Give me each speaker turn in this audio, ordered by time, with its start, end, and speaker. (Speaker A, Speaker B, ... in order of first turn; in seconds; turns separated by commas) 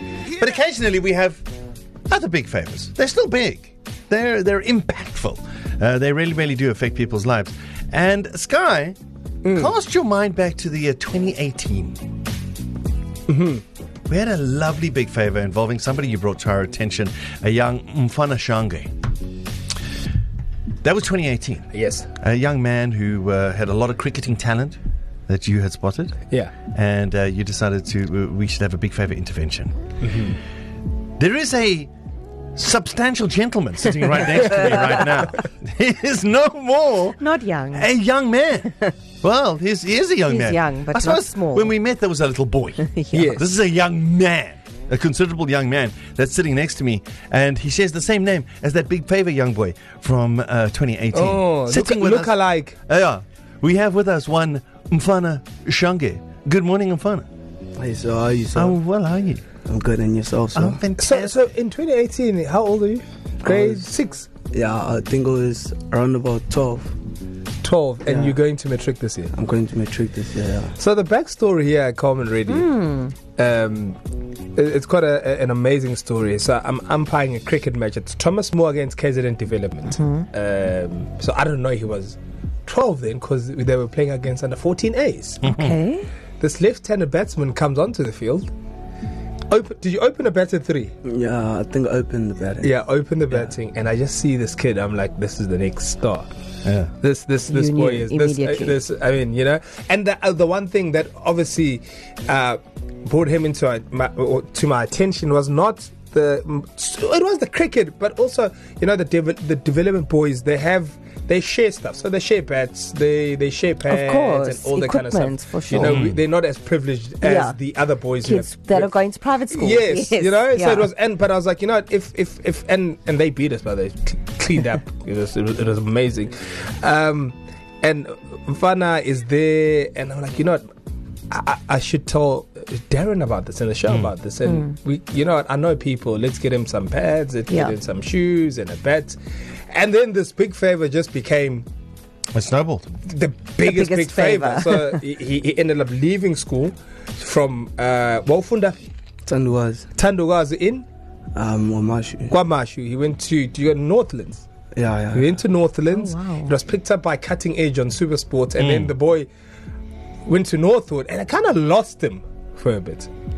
Speaker A: 0.2-1.4, Speaker A: 2.1-8.9, Speaker B: 9.4-9.7, Speaker A: 9.5-12.0, Speaker B: 13.3-13.6, Speaker A: 14.1-18.9, Speaker A: 20.8-21.7, Speaker B: 21.7-22.1, Speaker A: 22.2-26.2, Speaker A: 26.7-29.7, Speaker B: 30.0-30.4, Speaker A: 31.2-31.9, Speaker A: 32.5-37.2, Speaker C: 37.2-37.9, Speaker A: 37.7-57.3, Speaker C: 40.3-41.7, Speaker C: 42.8-43.4, Speaker B: 43.1-43.4, Speaker B: 51.1-52.8, Speaker D: 57.8-58.8, Speaker A: 58.5-59.5, Speaker D: 59.6-60.8, Speaker A: 60.5-61.5, Speaker B: 61.0-64.3, Speaker D: 63.4-63.9, Speaker D: 64.5-67.0, Speaker B: 67.6-69.3, Speaker D: 68.1-68.4, Speaker D: 69.3-70.8, Speaker B: 70.8-72.8, Speaker C: 72.5-73.1, Speaker B: 73.3-74.0, Speaker B: 74.6-85.4, Speaker C: 79.9-80.2, Speaker A: 85.4-85.8, Speaker C: 85.4-86.1, Speaker B: 86.4-88.5, Speaker B: 89.5-90.9, Speaker D: 91.0-92.8, Speaker B: 92.6-96.3, Speaker A: 96.6-96.9, Speaker B: 97.0-118.9, Speaker C: 97.5-98.8, Speaker C: 113.9-115.9, Speaker A: 115.8-116.2, Speaker C: 117.2-117.6, Speaker C: 118.2-120.9, Speaker B: 119.5-130.6, Speaker B: 131.3-139.2, Speaker C: 134.5-134.7, Speaker C: 137.5-137.8, Speaker B: 139.7-141.7, Speaker A: 142.3-142.9, Speaker B: 143.0-148.8, Speaker C: 143.6-145.0, Speaker D: 149.2-149.9, Speaker B: 149.9-150.9, Speaker D: 151.3-152.4, Speaker B: 152.3-154.4, Speaker D: 154.7-155.4, Speaker B: 155.1-159.3, Speaker C: 155.9-156.5, Speaker A: 158.6-158.9, Speaker B: 160.2-163.1